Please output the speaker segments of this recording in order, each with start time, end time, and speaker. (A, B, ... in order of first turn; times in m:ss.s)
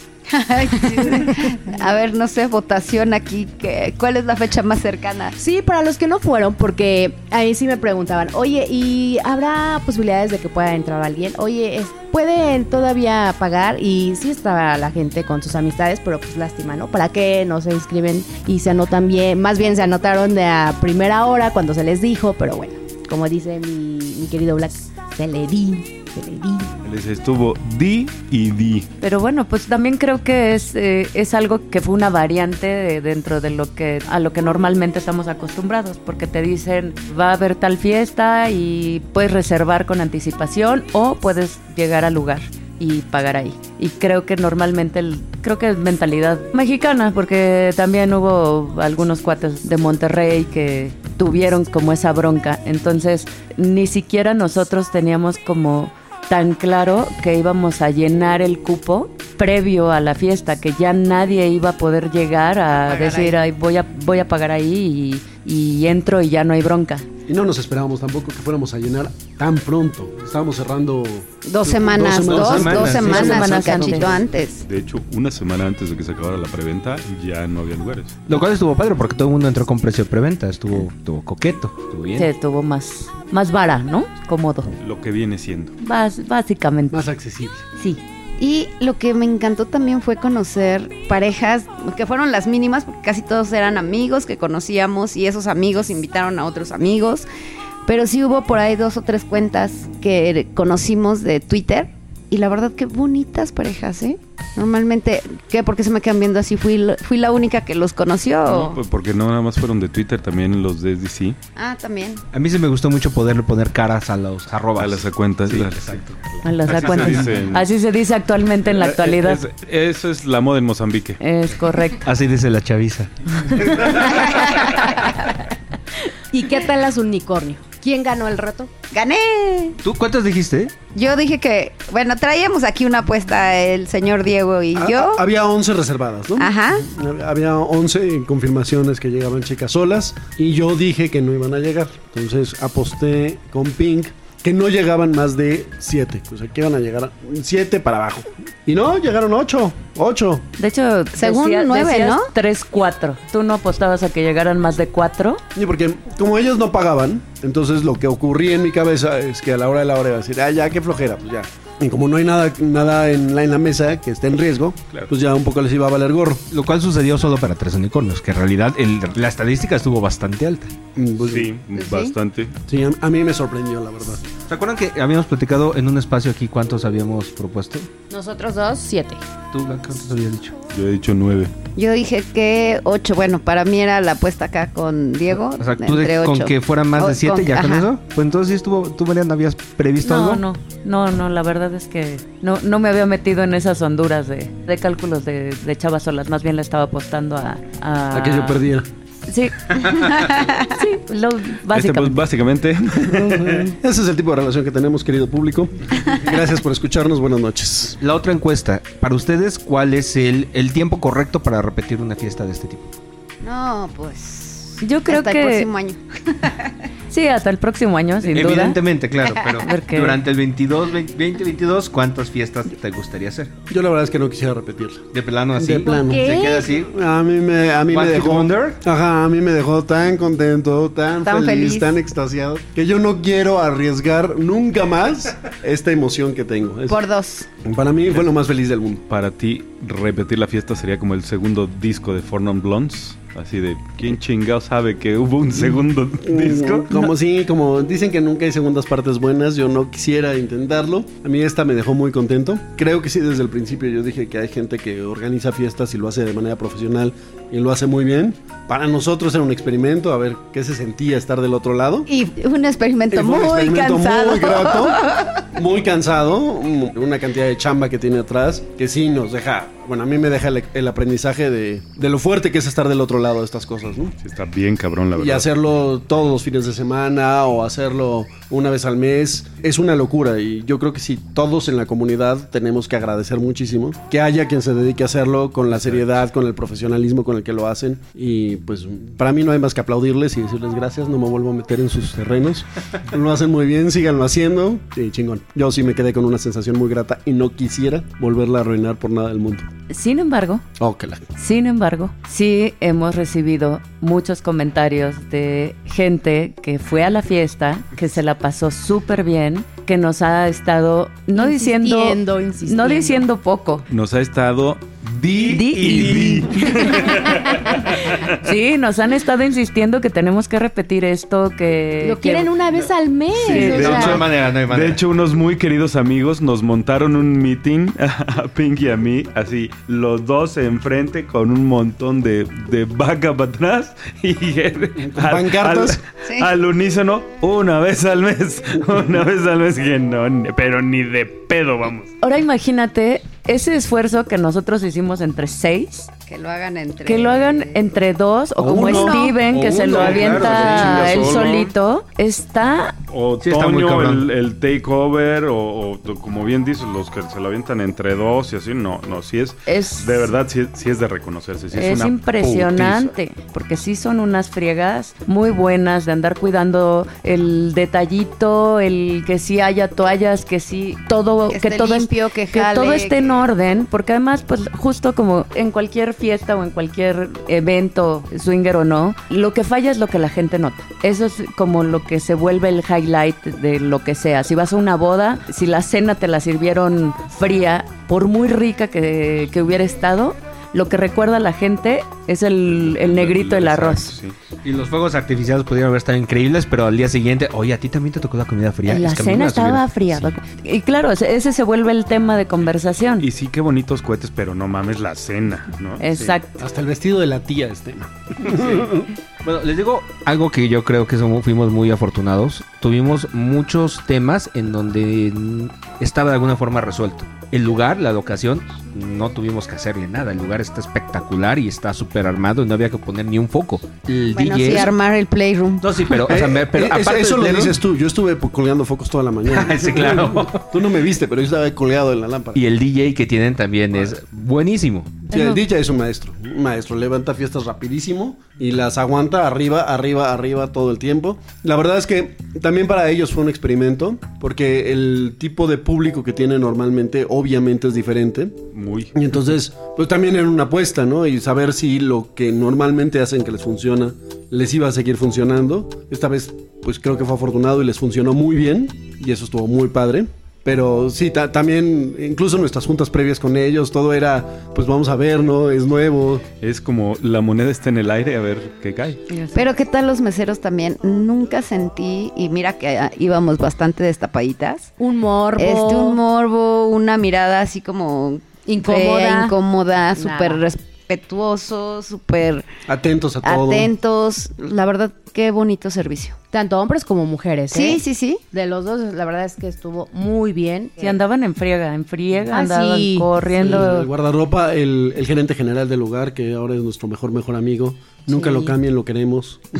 0:00.3-0:05.4 A
0:00.7-0:01.6 B
0:05.4-0:26.7 B
0:26.8-0:28.9 C
0:29.0-1:07.1 D
1:02.8-1:03.4 A
1:07.3-1:14.0 E
1:11.4-1:14.6 A
1:11.9-1:13.4 F
1:12.6-1:14.2 D
1:14.6-1:18.2 C
1:18.3-1:22.3 F
1:22.2-1:24.7 D
1:24.8-1:25.7 C
1:25.8-1:27.0 D
1:26.9-1:27.6 E
1:27.8-1:28.0 D
1:28.4-1:37.3 A
1:37.8-1:48.8 A
1:48.4-1:51.4 C
1:51.6-1:52.2 A
1:52.3-1:57.3 F
1:54.8-1:57.7 C
1:56.4-1:59.4 D
1:58.7-2:01.2 C
2:01.2-2:02.0 D
2:02.0-2:04.0 F
2:06.3-2:08.7 B
2:08.9-2:09.8 A
2:09.8-2:10.7 F
2:10.9-2:15.2 A
2:14.7-2:30.5 E
2:16.4-2:16.8 A
2:30.6-2:35.4 D
2:31.2-2:32.3 A
2:35.5-2:46.4 E
2:46.5-2:50.7 F
2:51.0-2:51.5 E
2:51.2-2:52.5 C
2:51.7-2:52.1 A
2:52.7-2:54.2 E
2:54.4-2:57.9 F
2:58.1-2:59.2 B
2:59.5-3:00.6 F
3:00.7-3:01.5 C
3:01.7-3:07.8 A
3:05.3-3:10.4 F
3:10.0-3:18.6 D
3:18.1-3:18.9 E
3:19.3-3:22.2 D
3:20.1-3:20.5 A
3:21.7-3:23.7 C
3:23.1-3:28.0 E
3:28.0-3:32.9 F
3:33.4-3:36.7 A
3:34.8-3:35.7 D
3:37.1-3:38.8 D
3:38.2-3:43.5 F
3:39.2-3:39.6 A
3:39.6-3:40.2 D
3:43.7-3:57.0 E
3:45.1-3:46.9 F
3:45.9-3:46.6 B
3:47.9-3:48.8 F
3:51.2-3:51.9 A
3:56.9-3:57.5 A
3:57.6-3:59.0 E
3:59.1-4:06.9 C
4:06.2-4:22.1 E
4:22.1-4:25.3 A
4:23.1-4:34.1 E
4:34.2-4:35.4 C
4:35.1-4:59.7 E
4:45.7-4:46.0 C
4:59.9-5:00.6 D
5:00.8-5:01.2 E
5:01.4-5:13.9 D
5:11.3-5:13.2 B
5:13.9-5:18.3 C
5:15.2-5:16.5 F
5:15.5-5:17.3 D
5:17.8-5:22.5 D
5:22.0-5:24.2 B
5:23.4-5:42.1 C
5:23.4-5:24.2 D
5:23.6-5:25.0 F
5:35.0-5:36.0 E
5:36.2-5:36.5 A
5:42.2-5:46.1 D
5:46.3-5:47.6 A
5:47.0-5:53.0 D
5:48.6-5:51.5 F
5:48.6-5:49.1 E
5:49.8-5:51.7 C
5:50.2-5:50.9 E
5:53.1-6:03.1 C
5:53.4-5:54.3 F
5:59.6-6:00.3 D
6:01.7-6:34.1 D
6:11.5-6:13.5 A
6:32.7-6:34.3 C
6:34.6-6:40.4 F
6:38.8-6:43.3 D
6:43.2-6:46.0 C
6:46.0-6:46.6 D
6:46.2-6:49.1 E
6:48.4-7:04.9 F
7:04.3-7:06.0 A
7:05.8-7:07.8 F
7:06.1-7:12.6 E
7:09.5-7:10.7 F
7:12.5-7:15.2 F
7:15.3-7:28.6 E
7:15.3-7:15.6 D
7:28.7-7:29.1 C
7:29.1-7:46.4 E
7:46.6-7:49.2 C
7:49.3-7:49.6 D
7:49.5-7:54.9 A
7:55.0-7:56.2 B
7:55.6-8:02.7 A
7:58.6-7:59.6 B
8:00.2-8:00.6 B
8:02.9-8:03.9 E
8:03.4-8:06.4 A
8:06.5-8:10.9 B
8:07.7-8:08.4 A
8:11.0-8:14.1 D
8:12.5-8:13.9 B
8:13.6-8:19.6 E
8:18.3-8:18.8 B